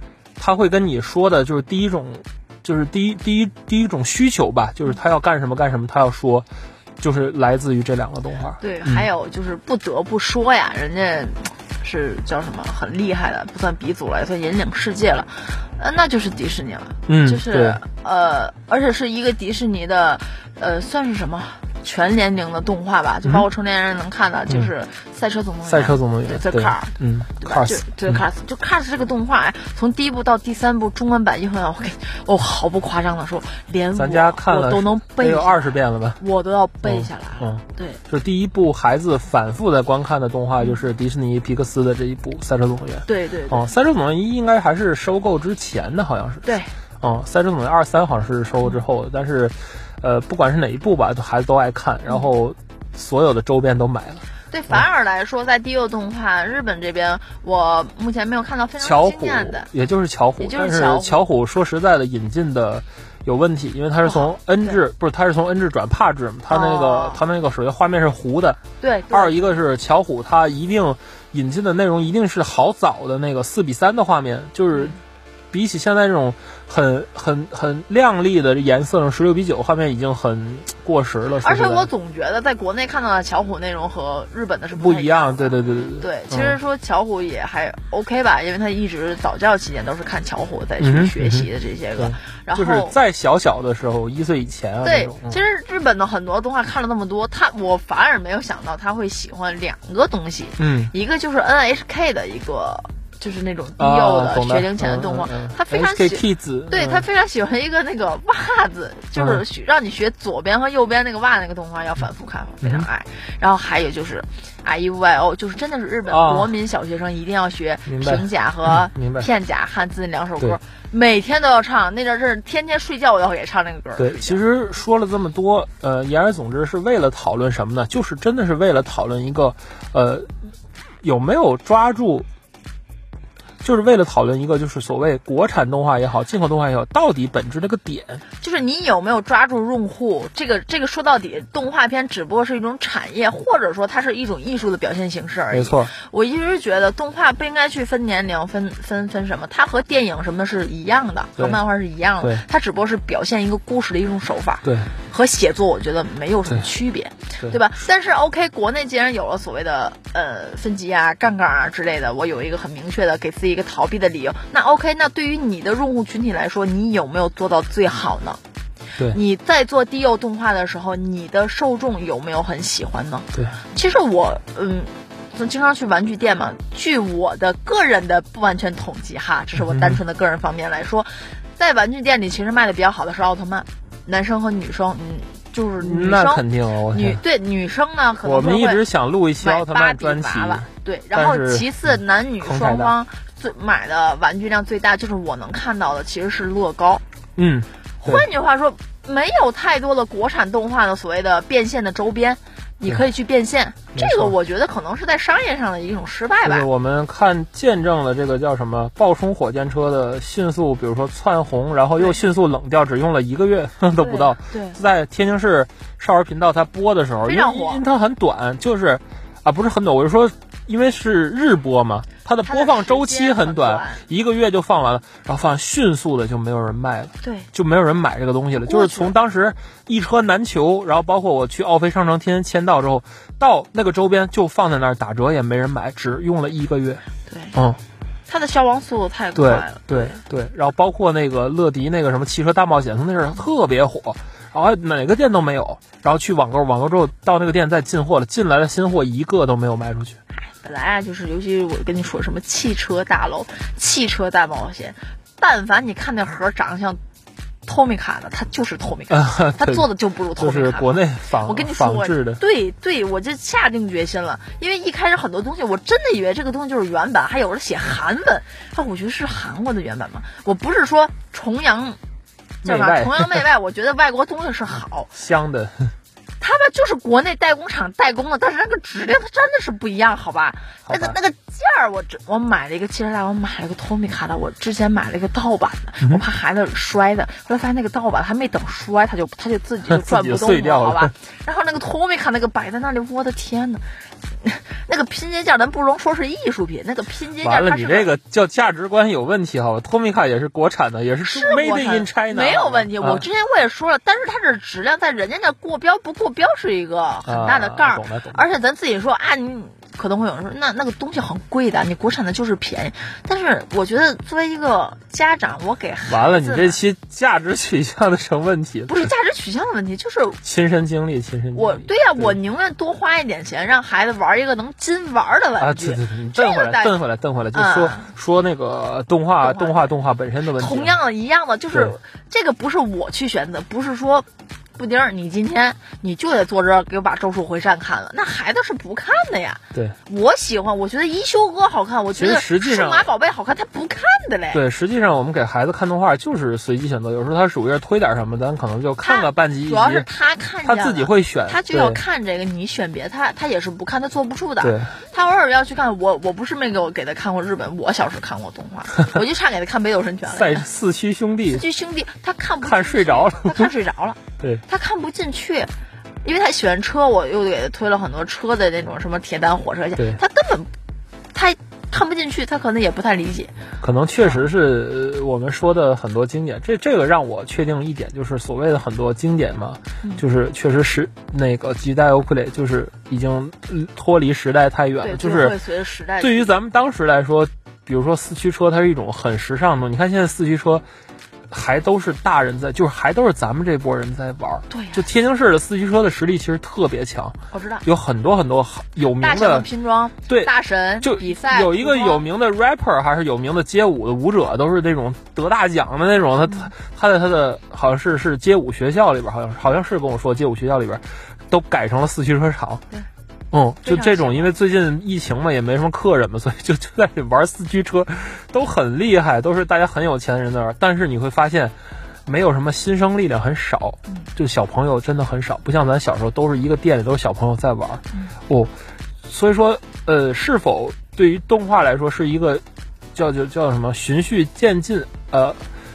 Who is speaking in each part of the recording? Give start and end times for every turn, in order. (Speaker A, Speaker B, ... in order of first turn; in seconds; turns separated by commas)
Speaker A: 0.4-6.5, Speaker A: 7.0-9.1, Speaker B: 8.6-38.0, Speaker A: 17.1-17.8, Speaker A: 25.6-28.2, Speaker A: 34.0-36.2, Speaker A: 36.8-54.8, Speaker B: 43.0-43.7, Speaker B: 46.4-46.7, Speaker B: 54.5-59.7, Speaker A: 58.8-68.6, Speaker B: 60.4-61.2, Speaker B: 64.0-64.8, Speaker B: 66.5-67.2, Speaker B: 68.8-69.6, Speaker A: 69.1-74.9, Speaker B: 74.7-75.0, Speaker A: 75.5-81.9, Speaker B: 81.4-93.0, Speaker A: 84.7-86.6, Speaker A: 90.8-95.4, Speaker B: 94.8-124.4, Speaker A: 100.6-100.9, Speaker A: 103.8-107.0, Speaker A: 109.2-109.4, Speaker A: 112.6-112.9, Speaker A: 116.1-116.5, Speaker A: 117.8-119.3, Speaker A: 124.0-130.3, Speaker A: 131.0-132.2, Speaker A: 133.6-138.2, Speaker B: 138.4-168.4, Speaker A: 145.5-145.9, Speaker A: 154.6-154.9, Speaker B: 169.1-188.8, Speaker A: 173.3-173.6, Speaker A: 179.6-180.0, Speaker A: 185.8-187.2, Speaker A: 188.2-192.9, Speaker B: 189.4-197.0, Speaker A: 197.3-198.3, Speaker B: 198.0-206.7, Speaker A: 203.9-204.3, Speaker A: 206.4-237.0, Speaker B: 214.0-214.8, Speaker B: 217.2-217.8, Speaker B: 222.4-224.0, Speaker B: 227.2-227.5, Speaker B: 228.6-229.1, Speaker B: 237.2-237.6, Speaker A: 237.5-237.8, Speaker B: 238.3-240.2, Speaker A: 239.3-250.2, Speaker B: 250.3-257.0, Speaker B: 257.6-272.0, Speaker A: 259.1-262.4, Speaker B: 272.6-275.1, Speaker A: 272.6-273.4, Speaker A: 275.1-275.9, Speaker B: 276.4-293.8, Speaker A: 280.9-281.1, Speaker A: 289.9-291.1, Speaker B: 294.4-298.1, Speaker A: 297.4-303.3, Speaker B: 301.2-316.8, Speaker A: 307.2-308.4, Speaker A: 316.1-319.1, Speaker B: 318.9-320.4, Speaker A: 320.4-322.4, Speaker B: 321.5-326.9, Speaker A: 325.6-330.9, Speaker B: 327.5-328.1, Speaker B: 329.4-329.8, Speaker B: 330.5-344.6, Speaker A: 331.7-331.9, Speaker A: 342.1-343.1, Speaker A: 344.5-350.1, Speaker B: 349.0-360.7, Speaker A: 350.6-352.0, Speaker A: 354.6-354.9, Speaker A: 360.3-361.6, Speaker B: 361.4-365.7, Speaker A: 362.6-363.7, Speaker B: 366.2-370.7, Speaker B: 371.3-373.5, Speaker A: 373.8-385.6, Speaker B: 385.0-386.5, Speaker A: 386.2-390.8, Speaker A: 391.5-399.7, Speaker B: 394.7-395.1, Speaker B: 397.5-397.8, Speaker B: 399.1-402.2, Speaker A: 400.3-412.8, Speaker A: 413.5-421.7, Speaker B: 413.8-414.5, Speaker A: 422.2-428.7, Speaker A: 429.2-432.6, Speaker A: 433.1-435.6